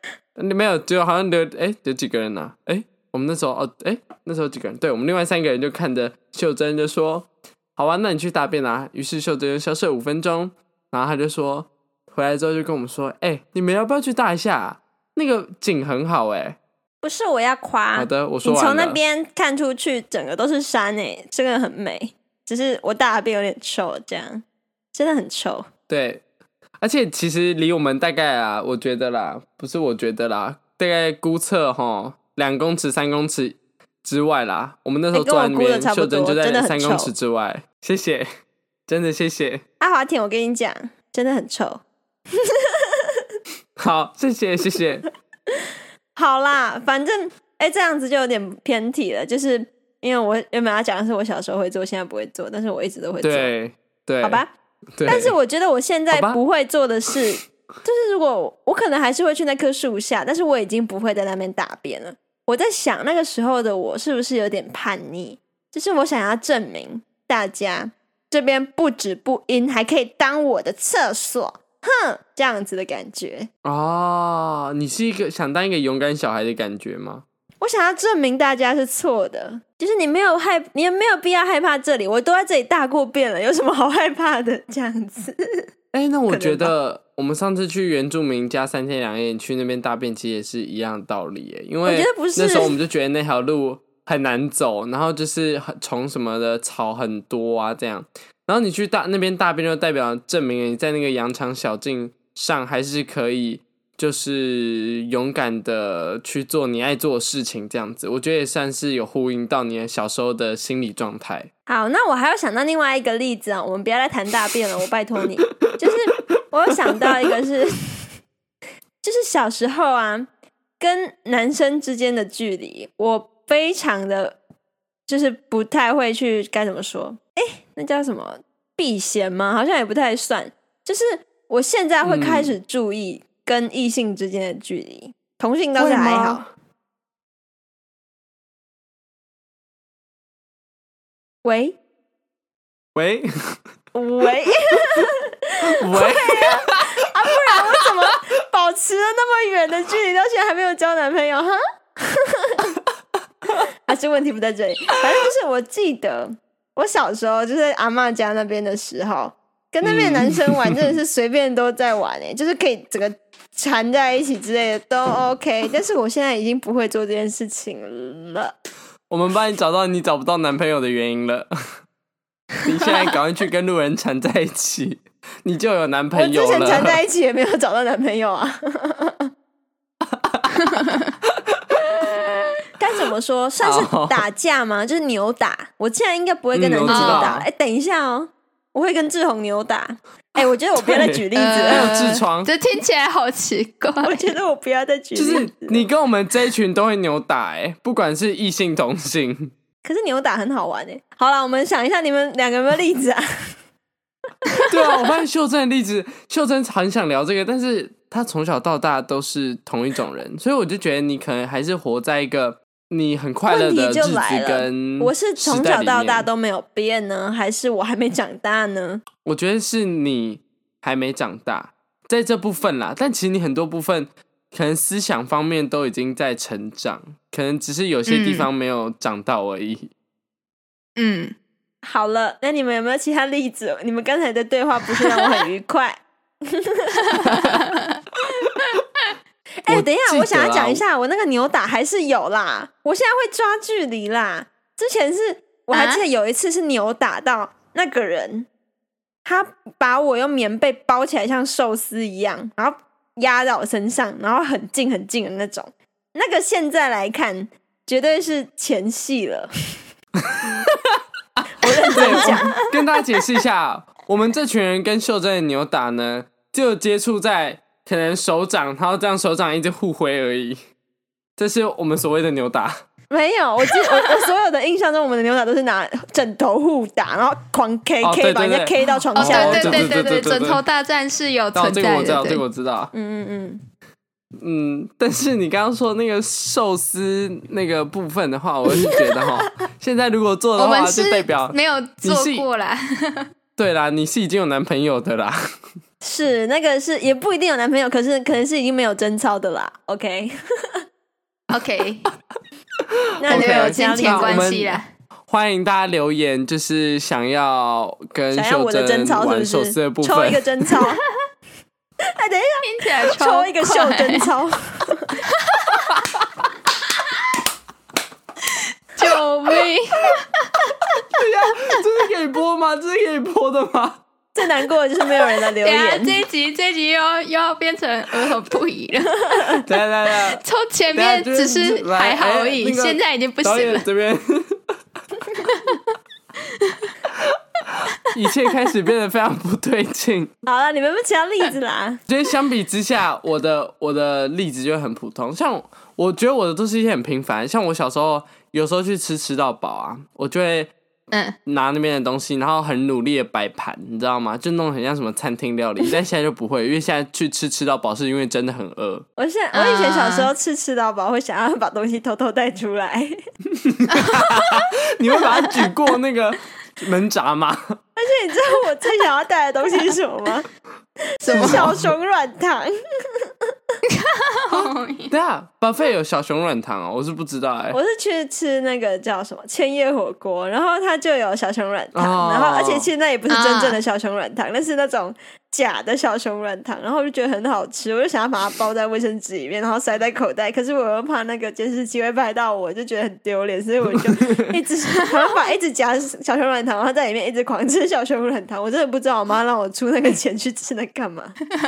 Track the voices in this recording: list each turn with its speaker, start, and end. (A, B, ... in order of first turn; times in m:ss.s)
0:00.4-0:16.6 A
0:17.0-0:25.6 B
0:17.9-0:19.0 A
0:25.9-0:26.2 A
0:26.8-0:38.3 A
0:35.1-0:37.1 B
0:38.9-0:39.6 A
0:39.8-0:41.8 B
0:43.8-0:45.0 A
0:46.1-0:53.5 B
0:53.2-0:54.4 A
0:54.2-0:54.5 B
0:55.0-0:55.3 A
0:55.0-1:13.5 B
0:56.1-0:56.4 A
1:13.6-1:17.2 A
1:17.6-1:25.6 B
1:25.9-1:51.5 A
1:26.3-1:26.7 B
1:31.8-1:32.7 B
1:51.7-1:57.9 B
1:59.0-2:00.3 B
2:00.8-2:04.4 B
2:05.1-2:16.4 B
2:12.0-2:12.5 A
2:15.8-2:16.4 A
2:21.4-2:21.8 B
2:22.9-2:23.6 A
2:23.9-2:32.6 B
2:25.7-2:26.8 A
2:33.8-2:48.5 B
2:39.8-2:40.9 A
2:49.1-2:51.5 A
2:52.6-2:57.0 A
2:56.1-2:59.3 B
3:00.0-3:02.3 A
3:02.8-3:11.9 B
3:03.6-3:04.2 A
3:06.5-3:07.5 A
3:06.9-3:07.3 C
3:10.8-3:12.5 A
3:11.3-3:14.3 C
3:14.0-3:15.8 B
3:15.1-3:19.5 A
3:19.8-3:23.2 B
3:24.7-3:36.3 A
3:33.4-3:39.0 B
3:39.2-3:49.9 A
3:48.1-3:48.5 C
3:51.0-3:51.3 C
3:51.8-3:57.4 B
3:57.1-3:58.0 C
3:57.2-3:57.6 A
3:59.6-4:08.5 B
3:59.7-4:00.8 A
4:05.7-4:06.0 C
4:09.2-4:19.5 B
4:20.2-4:21.0 A
4:21.6-4:22.7 B
4:21.9-4:30.6 A
4:31.4-4:32.8 A
4:33.1-4:39.9 B
4:38.0-4:40.6 A
4:39.1-4:42.4 C
4:41.5-4:42.9 A
4:42.9-4:43.6 B
4:44.4-4:52.4 A
4:50.6-4:53.3 C
4:53.6-4:55.4 A
4:56.0-5:00.4 B
5:01.5-5:02.1 C
5:03.2-5:04.5 B
5:03.3-5:10.4 A
5:03.3-5:04.9 C
5:08.3-5:11.0 B
5:12.1-5:15.2 B
5:12.6-5:14.3 C
5:15.3-5:16.1 C
5:19.0-5:20.4 C
5:21.1-5:24.0 A
5:24.3-5:26.2 B
5:25.6-5:29.7 C
5:29.6-5:30.4 A
5:30.2-5:33.8 C
5:30.9-5:34.6 A
5:35.4-5:35.8 C
5:36.6-5:36.9 C
5:37.1-5:40.3 A
5:40.4-5:42.0 B
5:42.1-5:50.7 A
5:51.1-5:51.4 C
5:51.4-5:59.0 A
5:59.2-6:03.1 B
5:59.5-6:00.3 C
6:03.6-6:07.8 A
6:03.9-6:04.4 C
6:08.0-6:10.5 B
6:11.2-6:13.3 B
6:11.2-6:11.7 C
6:11.3-6:11.9 A
6:13.9-6:15.1 C
6:14.5-6:17.8 A
6:17.7-6:41.4 B
6:21.9-6:22.9 A
6:23.3-6:23.8 C
6:34.2-6:34.4 A